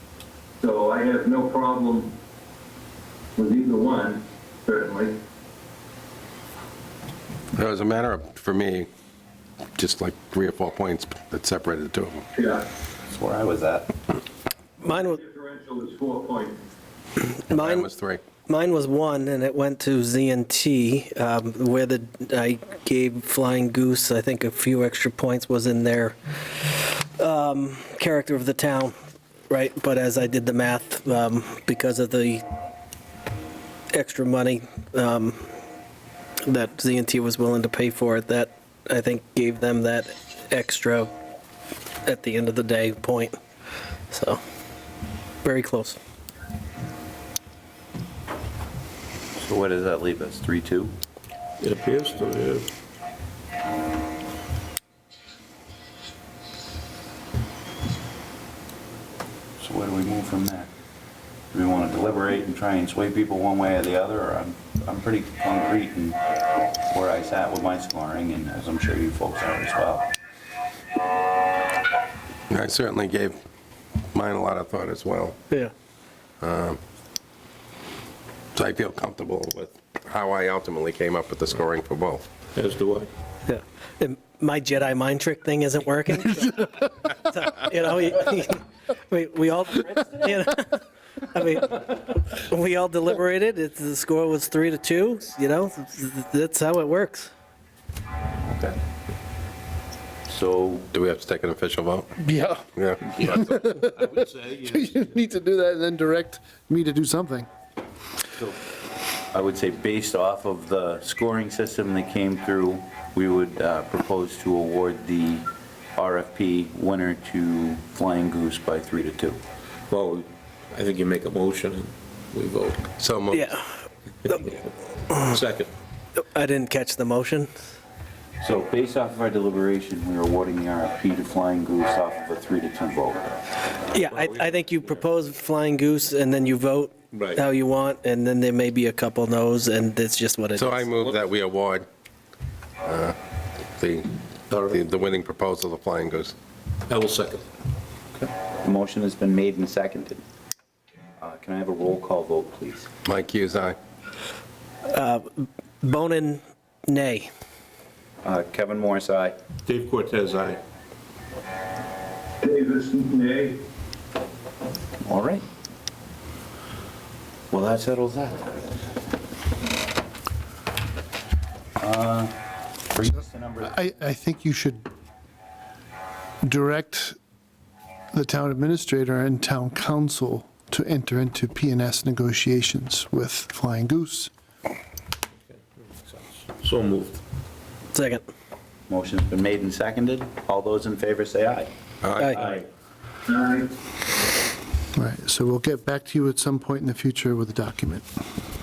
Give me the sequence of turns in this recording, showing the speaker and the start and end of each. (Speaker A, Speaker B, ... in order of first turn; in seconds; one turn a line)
Speaker A: 0.6-2.1
Speaker A: 3.4-5.2
Speaker B: 7.5-8.9
Speaker B: 9.8-12.2
Speaker A: 12.3-12.7
Speaker C: 13.1-13.9
Speaker D: 14.8-15.2
Speaker A: 14.8-16.6
Speaker D: 17.2-17.9
Speaker B: 17.5-18.2
Speaker D: 18.4-26.1
Speaker D: 27.2-28.9
Speaker D: 29.5-32.4
Speaker D: 33.9-35.5
Speaker D: 36.4-41.1
Speaker D: 42.0-43.4
Speaker D: 44.1-44.4
Speaker D: 45.4-46.0
Speaker C: 49.4-50.9
Speaker E: 51.6-52.7
Speaker C: 59.6-60.7
Speaker C: 61.5-66.2
Speaker C: 66.9-70.1
Speaker B: 72.5-73.4
Speaker B: 74.1-75.4
Speaker B: 76.4-76.8
Speaker B: 78.5-82.2
Speaker E: 82.5-83.1
Speaker D: 83.5-97.3
Speaker C: 98.5-98.8
Speaker C: 100.3-100.9
Speaker B: 100.9-102.1
Speaker F: 102.2-102.6
Speaker B: 102.8-103.4
Speaker E: 103.0-105.1
Speaker F: 103.3-107.5
Speaker C: 109.3-119.4
Speaker E: 119.9-122.8
Speaker B: 123.0-123.5
Speaker D: 123.3-123.7
Speaker E: 125.2-125.7
Speaker D: 126.2-127.5
Speaker C: 128.4-133.4
Speaker D: 133.9-140.9
Speaker E: 134.1-134.6
Speaker E: 137.1-137.4
Speaker B: 140.6-141.9
Speaker E: 141.0-141.2
Speaker B: 142.8-143.2
Speaker B: 143.8-144.1
Speaker E: 144.5-145.1
Speaker B: 144.7-146.3
Speaker E: 146.9-147.4
Speaker C: 148.2-150.2
Speaker C: 151.2-152.9
Speaker B: 153.0-153.8
Speaker D: 154.9-157.3
Speaker C: 158.2-159.4
Speaker E: 159.6-160.6
Speaker A: 162.4-163.6
Speaker C: 165.0-165.4
Speaker C: 167.5-168.7
Speaker C: 171.8-172.3
Speaker C: 172.9-173.7
Speaker F: 173.6-174.9
Speaker F: 176.4-177.2
Speaker F: 178.1-184.3
Speaker E: 185.5-187.2
Speaker D: 187.9-188.2
Speaker C: 188.9-191.7
Speaker B: 192.0-192.4
Speaker E: 192.4-192.6
Speaker A: 193.3-193.7
Speaker F: 194.9-198.1